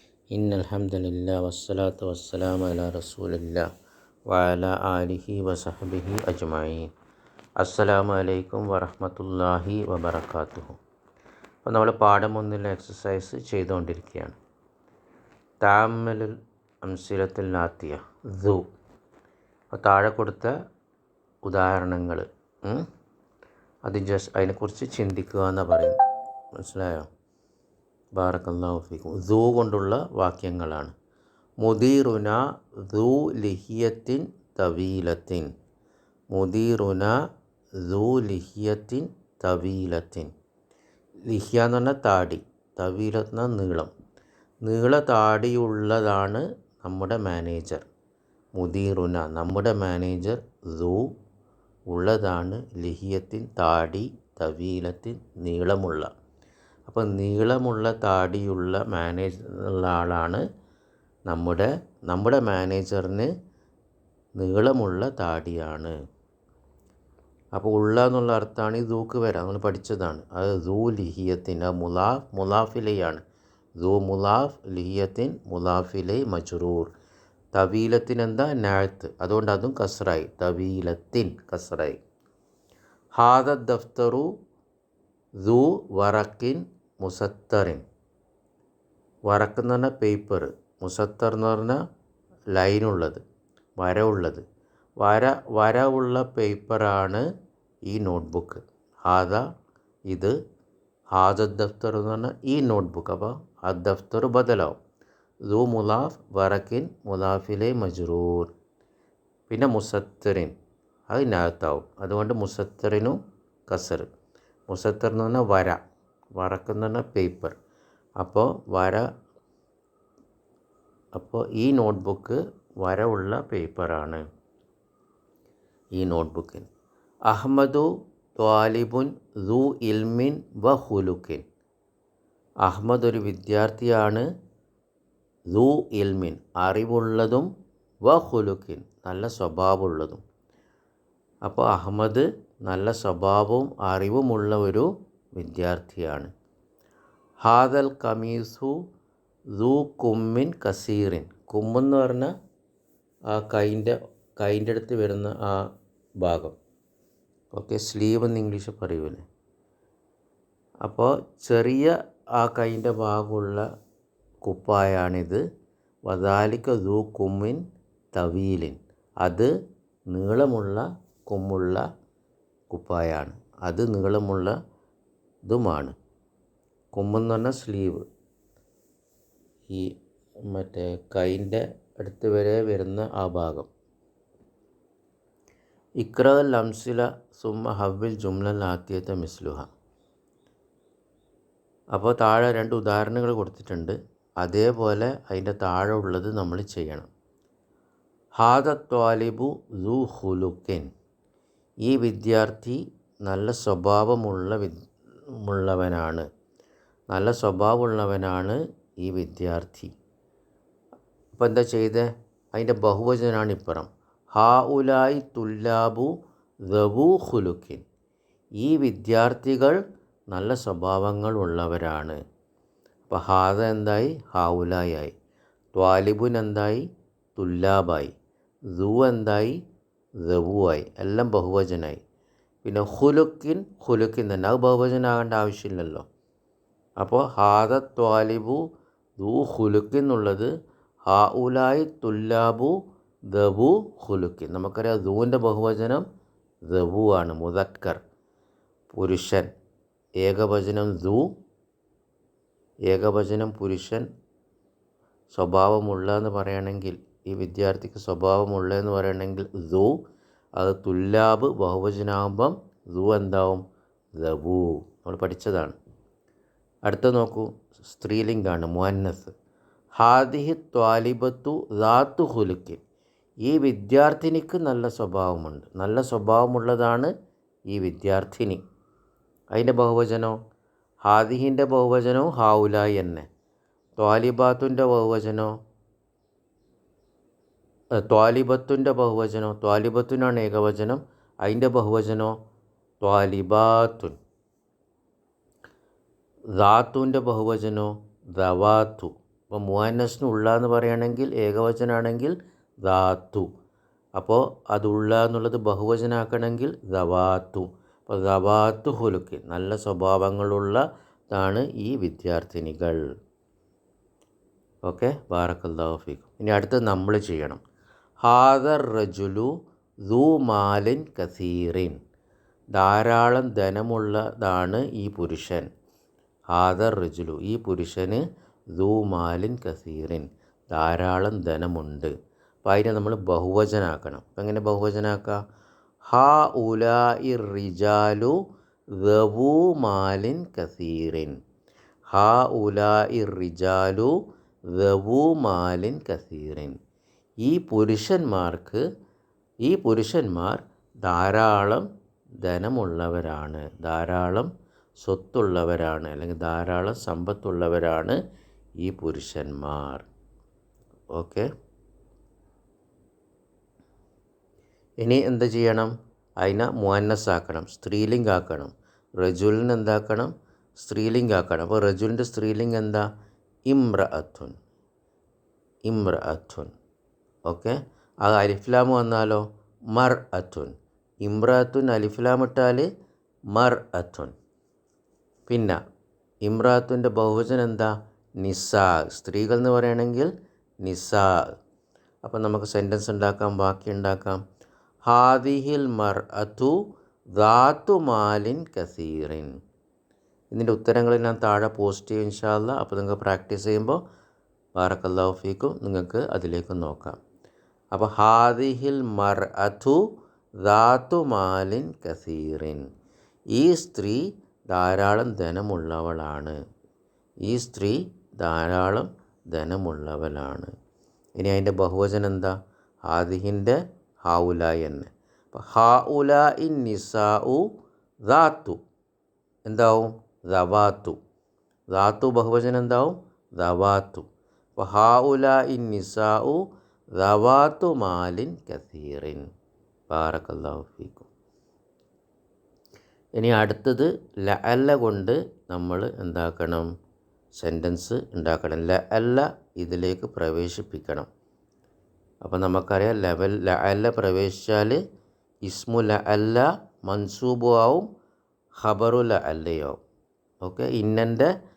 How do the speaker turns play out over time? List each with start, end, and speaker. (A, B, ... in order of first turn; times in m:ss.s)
0:00.3-0:03.7 A
0:04.3-0:06.9 A
0:07.6-0:10.8 A
0:11.6-0:14.4 A
0:15.6-0:18.6 A
0:19.7-0:20.5 A
0:21.4-0:22.9 A
0:23.9-0:26.0 A
0:26.6-0:27.1 A
0:28.2-0:30.9 A
0:31.6-0:35.5 A
0:36.3-0:37.1 A
0:37.8-0:40.3 A
0:41.3-0:43.9 A
0:44.6-0:47.9 A
0:48.6-0:51.1 A
0:51.9-0:56.1 A
0:56.9-1:00.4 A
1:01.3-1:03.3 A
1:04.4-1:05.9 A
1:07.5-1:13.2 A
1:13.8-1:16.9 A
1:17.5-1:22.0 A
1:23.2-1:24.3 A
1:25.4-1:27.8 A
1:29.3-1:31.8 A
1:32.5-1:33.2 A
1:33.8-1:34.4 A
1:35.0-1:37.2 A
1:37.9-1:39.4 A
1:40.1-1:40.4 A
1:41.2-1:44.8 A
1:45.5-1:48.5 A
1:49.5-1:50.5 A
1:51.1-1:53.2 A
1:53.7-1:54.1 A
1:54.7-1:55.8 A
1:56.4-1:57.6 A
1:58.2-1:59.0 A
2:01.1-2:04.2 A
2:06.0-2:06.7 A
2:07.3-2:11.4 A
2:12.6-2:14.2 A
2:15.5-2:17.5 A
2:18.1-2:20.2 A
2:21.4-2:26.3 A
2:27.4-2:28.7 A
2:29.6-2:32.3 A
2:33.3-2:35.6 A
2:36.2-2:36.6 A
2:37.5-2:39.2 A
2:40.8-2:43.6 A
2:44.4-2:45.4 A
2:46.1-2:47.6 A
2:48.1-2:49.5 A
2:50.1-2:51.8 A
2:52.7-2:54.5 A
2:55.5-2:55.9 A
2:56.9-2:58.0 A
3:00.5-3:03.7 A
3:06.0-3:09.7 A
3:11.9-3:17.1 A
3:18.4-3:20.9 A
3:21.9-3:24.8 A
3:25.4-3:26.2 A
3:27.1-3:29.9 A
3:31.4-3:36.1 A
3:36.7-3:37.8 A
3:38.6-3:39.8 A
3:40.3-3:42.2 A
3:43.1-3:45.1 A
3:45.8-3:46.8 A
3:47.4-3:48.1 A
3:48.8-3:49.6 A
3:50.2-3:52.0 A
3:52.6-3:56.0 A
3:57.0-3:58.6 A
3:59.2-4:00.5 A
4:01.1-4:02.8 A
4:03.3-4:06.0 A
4:06.7-4:08.0 A
4:08.9-4:09.5 A
4:10.2-4:11.3 A
4:12.9-4:14.1 A
4:15.3-4:19.9 A
4:20.6-4:23.6 A
4:24.2-4:25.8 A
4:26.9-4:29.3 A
4:30.0-4:32.8 A
4:33.4-4:37.1 A
4:37.7-4:38.6 A
4:39.5-4:40.4 A
4:41.1-4:43.3 A
4:44.0-4:45.5 A
4:48.1-4:52.4 A
4:53.0-4:54.2 A
4:56.6-5:03.5 A
5:04.2-5:13.0 A
5:14.8-5:17.6 A
5:18.2-5:19.5 A
5:20.1-5:22.0 A
5:22.8-5:25.7 A
5:26.5-5:28.2 A
5:28.8-5:32.1 A
5:32.6-5:35.4 A
5:36.1-5:38.4 A
5:39.0-5:41.3 A
5:42.1-5:44.1 A
5:44.7-5:46.8 A
5:47.4-5:48.8 A
5:49.6-5:51.9 A
5:52.4-5:54.5 A
5:55.0-5:58.2 A
5:58.8-6:00.0 A
6:01.2-6:01.5 A
6:05.0-6:13.1 A
6:13.7-6:14.6 A
6:15.9-6:16.7 A
6:17.5-6:22.9 A
6:23.5-6:24.3 A
6:25.5-6:25.8 A
6:26.4-6:30.3 A
6:30.8-6:31.4 A
6:32.2-6:34.4 A
6:35.1-6:36.8 A
6:37.4-6:39.5 A
6:40.5-6:44.0 A
6:44.8-6:47.2 A
6:47.9-6:50.0 A
6:50.6-6:52.9 A
6:53.5-6:56.6 A
6:57.5-7:00.7 A
7:01.4-7:02.5 A
7:03.1-7:07.6 A
7:08.3-7:08.8 A
7:09.7-7:11.2 A
7:11.9-7:14.3 A
7:14.8-7:16.6 A
7:17.2-7:19.4 A
7:20.1-7:21.3 A
7:23.4-7:26.9 A
7:27.6-7:31.3 A
7:32.4-7:35.0 A
7:35.7-7:38.1 A
7:38.8-7:40.0 A
7:40.6-7:41.5 A